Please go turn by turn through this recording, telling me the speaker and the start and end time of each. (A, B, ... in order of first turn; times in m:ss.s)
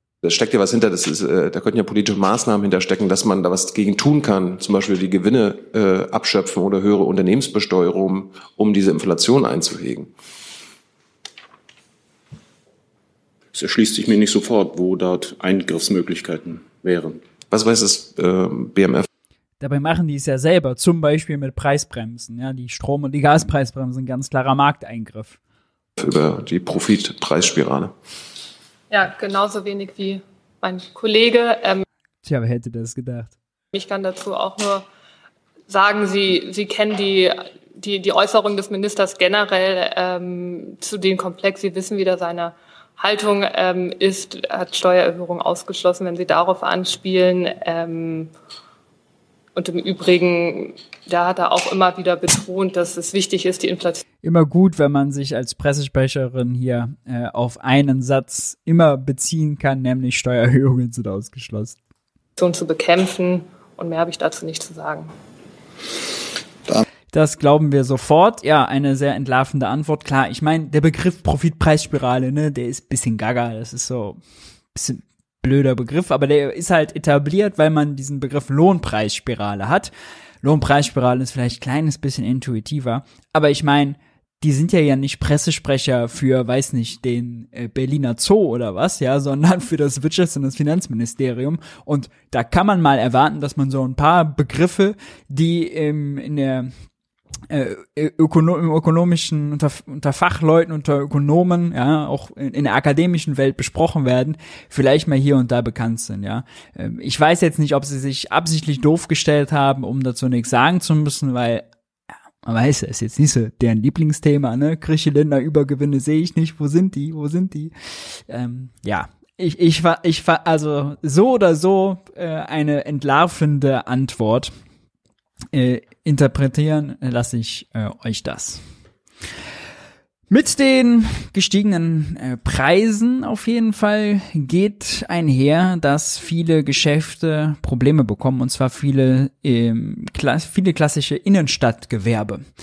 0:00.2-0:10.1 A
0:13.5-0:17.2 B
0:17.5-0:19.0 A
0:19.6-0:25.4 C
0:26.0-0:27.9 A
0:28.9-0:31.8 D
0:32.2-0:33.3 C
0:33.7-0:34.8 D
0:35.7-0:48.3 D
0:49.6-0:54.0 D
0:54.2-1:01.8 C
1:02.4-1:05.1 D
1:07.1-1:14.2 C
1:14.7-1:19.9 C
1:20.4-1:36.7 C
1:37.5-1:51.6 C
1:52.4-2:04.5 C
2:05.5-2:08.6 C
2:10.3-2:22.4 C